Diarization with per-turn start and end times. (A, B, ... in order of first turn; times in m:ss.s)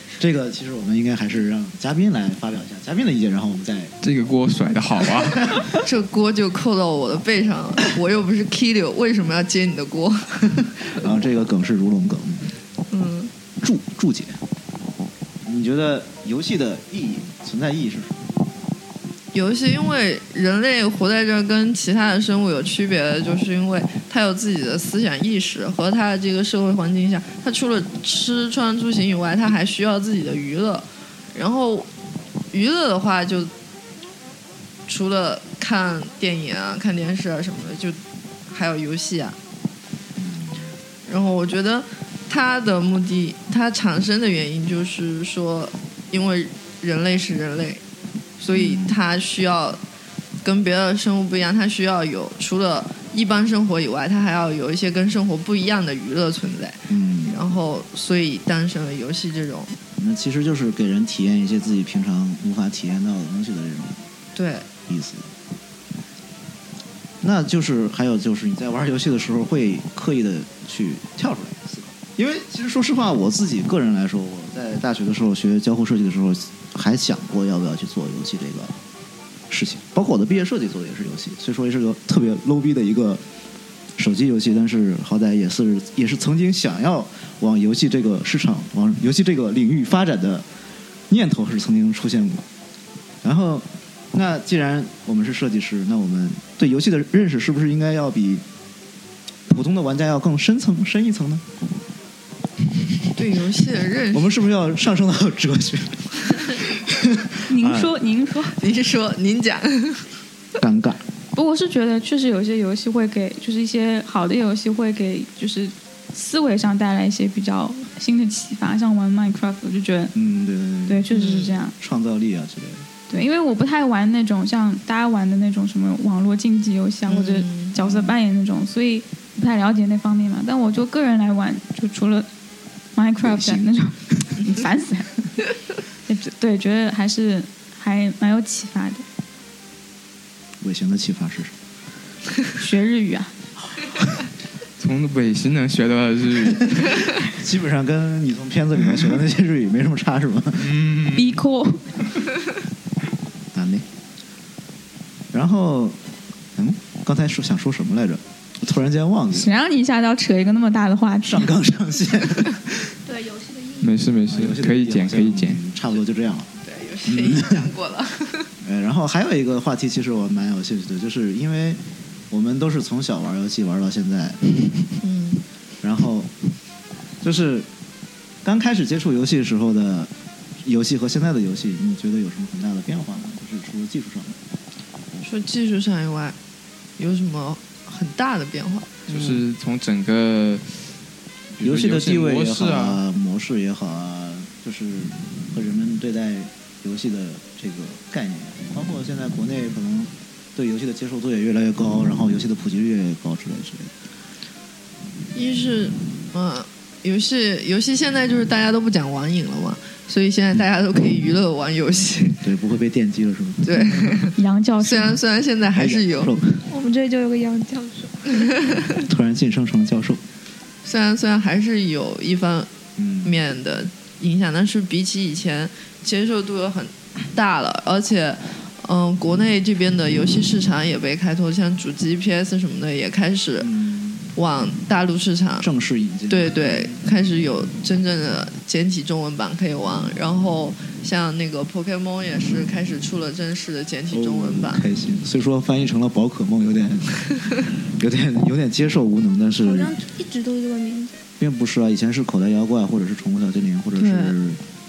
0:00.2-0:03.9 A
0:04.0-0:05.7 B
0:05.8-0:10.7 C
0:10.9-0:12.5 A
0:12.9-0:13.3 C
0:13.6-0:14.4 A
0:15.4-0:18.3 A
0:19.3-0:31.9 C
0:32.5-0:33.5 C
0:34.9-0:38.0 C
0:38.5-0:39.4 C
0:40.2-0:40.7 A
0:41.1-0:47.8 C
0:48.4-0:49.8 C
0:48.5-0:49.0 A
0:50.4-0:59.7 C
0:56.9-0:57.4 A
1:00.0-1:04.0 A
1:04.4-1:04.7 C
1:04.9-1:05.3 A
1:07.2-1:18.8 A
1:19.5-1:23.2 A
1:24.0-1:30.5 A
1:31.1-1:32.4 A
1:33.2-1:38.4 A
1:39.5-1:41.4 A
1:43.2-1:44.3 C
1:44.1-1:48.0 A
1:47.5-1:48.6 D
1:48.6-1:50.1 C
1:50.6-1:51.0 A
1:51.3-2:00.1 D
2:00.1-2:02.9 A
2:00.9-2:01.7 D
2:01.1-2:01.5 C
2:03.1-2:12.3 D
2:07.1-2:07.8 C
2:07.8-2:08.1 A
2:13.0-2:15.1 D
2:13.2-2:13.7 A
2:16.1-2:19.0 D
2:20.6-2:21.6 A
2:22.6-2:23.3 D
2:24.8-2:27.2 B
2:26.8-2:30.8 A
2:30.6-2:31.2 B
2:31.1-2:31.8 D
2:33.5-2:33.9 A
2:35.3-2:36.0 A
2:36.6-2:39.5 A
2:39.3-2:41.5 D
2:41.2-2:42.9 A
2:43.1-2:44.0 E
2:43.8-2:45.6 B
2:44.3-2:46.5 A
2:46.6-2:48.5 C
2:47.0-2:47.7 A
2:48.6-2:54.7 A
2:55.0-2:55.4 C
2:55.8-2:56.3 A
2:57.2-2:57.7 A
2:58.4-3:00.1 A
3:00.6-3:04.4 A
3:05.2-3:06.4 C
3:07.0-3:09.2 C
3:09.1-3:10.8 B
3:11.6-3:13.0 B
3:11.6-3:23.9 A
3:25.3-3:32.4 C
3:32.4-3:34.2 A
3:33.6-3:36.3 C
3:34.4-3:35.2 D
3:35.7-3:36.7 A
3:36.7-3:38.6 E
3:39.0-3:40.2 A
3:40.8-3:42.7 C
3:43.0-3:43.4 A
3:43.2-3:53.7 C
3:53.6-3:54.3 A
3:54.4-3:55.7 C
3:55.6-3:57.0 A
3:56.3-4:04.8 C
4:04.1-4:10.0 A
4:09.6-4:11.2 E
4:11.4-4:14.6 A
4:14.0-4:14.3 C